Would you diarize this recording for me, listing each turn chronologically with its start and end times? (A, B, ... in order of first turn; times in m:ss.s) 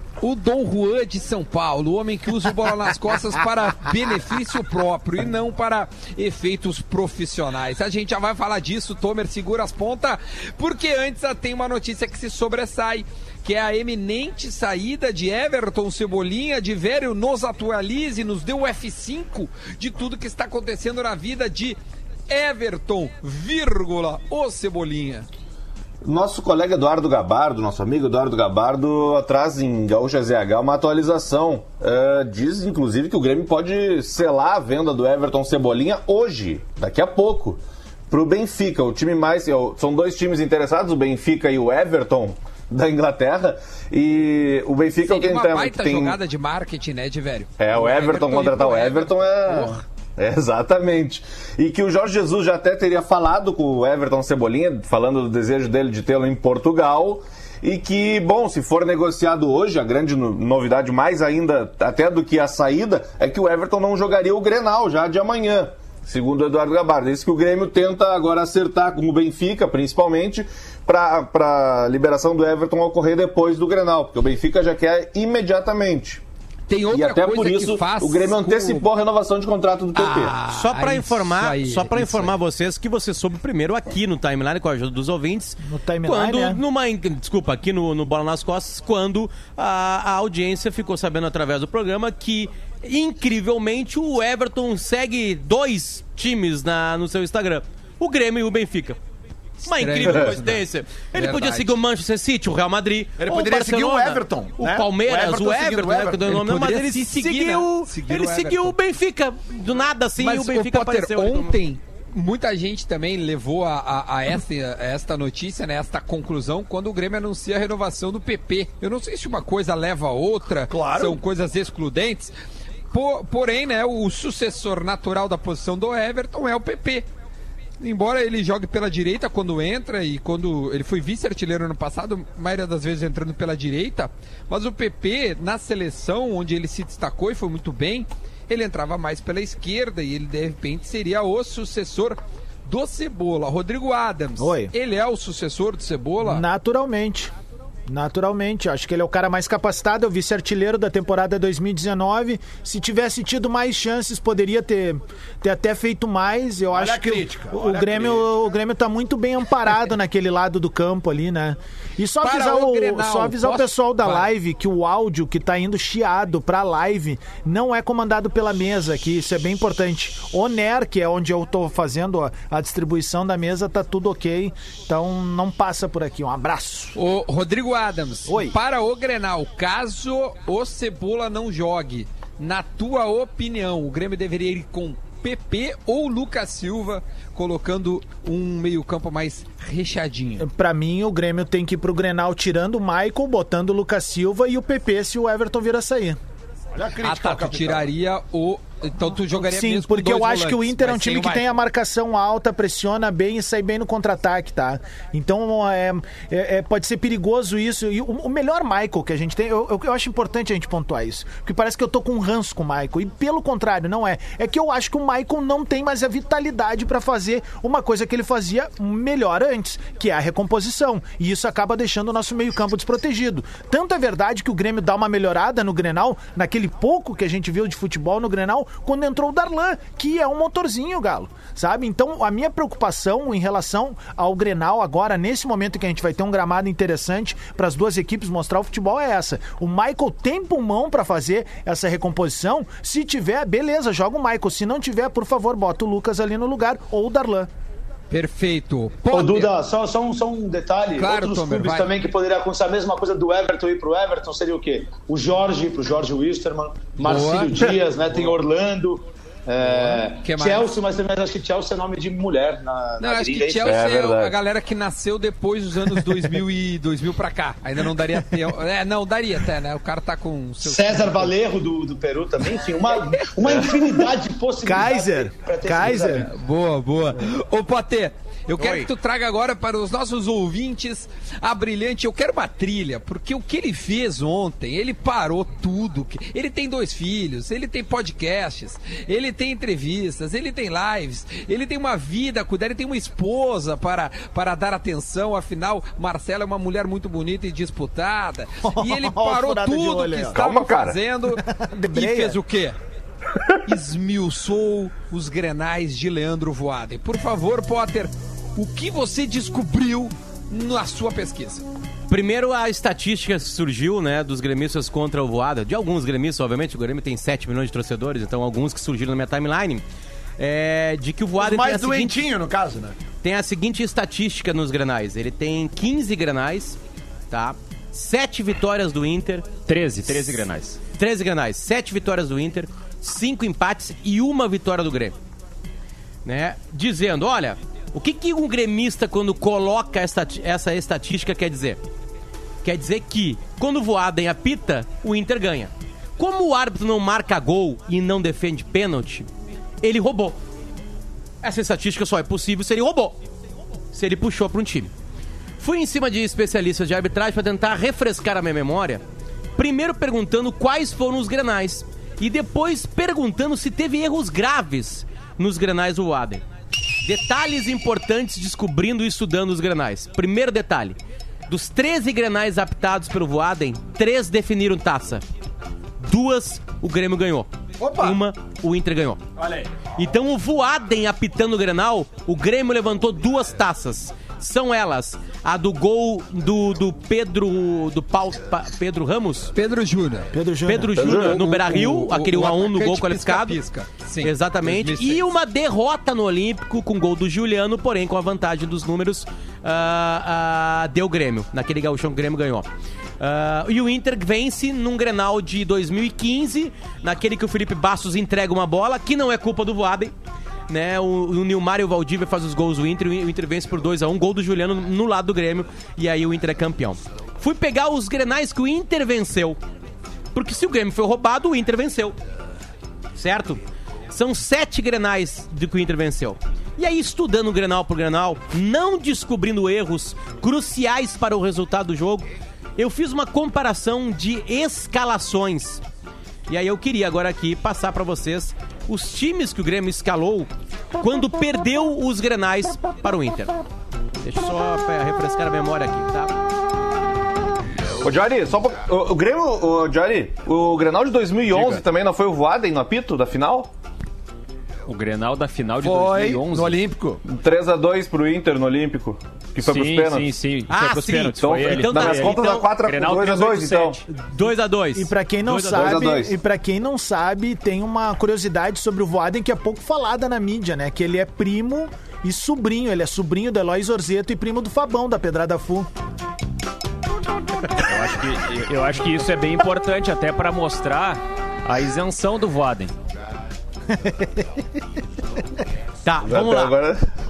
0:00.2-0:21.8 A
0:22.3-0:25.3 A
0:26.0-0:46.2 B
0:45.1-0:49.8 A
0:47.6-1:16.2 B
1:16.7-1:18.9 A
1:16.9-1:20.4 B
1:20.0-1:22.4 A
1:20.5-1:39.0 C
1:25.6-1:26.6 D
1:39.6-1:51.6 C
1:39.6-1:41.8 A
1:43.2-1:46.3 E
1:46.2-1:48.8 A
1:50.2-2:02.3 A
2:00.7-2:01.2 E
2:02.9-2:07.1 A
2:07.8-2:26.4 A
2:24.4-2:24.7 D
2:26.2-2:27.3 D
2:27.9-2:57.0 D
2:36.7-2:38.3 E
2:42.2-2:44.3 A
2:57.0-3:10.5 A
2:58.3-2:58.6 D
3:10.4-3:16.2 D
3:16.8-3:17.9 E
3:17.0-3:21.6 A
3:19.2-4:07.5 D
4:08.1-4:09.5 A
4:09.1-4:23.8 F
4:11.0-4:11.9 A
4:17.0-4:18.3 A
4:19.6-4:20.7 A
4:23.0-4:31.3 A
4:23.6-4:24.4 B
4:30.6-4:36.3 F
4:34.6-4:36.3 D
4:36.0-5:02.8 A
4:38.6-4:38.9 C
4:58.6-5:00.4 D
5:00.4-5:01.0 B
5:01.3-5:02.4 D
5:03.6-5:11.6 A
5:12.1-5:19.8 C
5:20.4-5:22.2 C
5:21.4-5:23.0 E
5:23.2-5:26.8 C
5:27.3-5:29.5 C
5:29.7-5:30.8 G
5:30.0-5:30.4 C
5:31.0-5:35.2 C
5:36.2-5:41.8 C
5:42.6-5:49.3 C
5:49.8-5:50.4 C
5:51.4-5:53.2 C
5:53.9-5:54.9 C
5:55.6-5:59.0 C
5:59.6-6:06.4 C
6:07.0-6:15.2 C
6:16.0-6:19.2 C
6:17.8-6:18.2 E
6:20.0-6:29.5 C
6:29.6-6:30.3 A
6:30.3-6:31.0 D
6:30.7-6:33.6 C
6:31.0-6:31.4 B
6:31.0-6:35.3 A
6:34.2-6:42.7 C
6:43.2-6:50.1 C
6:50.7-6:59.6 C
7:00.3-7:02.2 C
7:03.2-7:12.3 C
7:12.8-7:15.8 C
7:16.5-7:23.6 C
7:24.2-7:26.4 C
7:28.0-7:33.7 B
7:34.9-7:36.8 G
7:35.8-7:37.2 E
7:37.2-7:40.3 B
7:39.6-7:44.0 G
7:40.7-7:42.7 C
7:41.4-7:44.0 B
7:44.1-7:46.1 C
7:45.0-7:55.9 D
7:45.6-7:46.3 B
7:57.8-8:02.9 G
8:03.9-8:04.6 D
8:06.0-8:06.8 C
8:06.2-8:07.0 B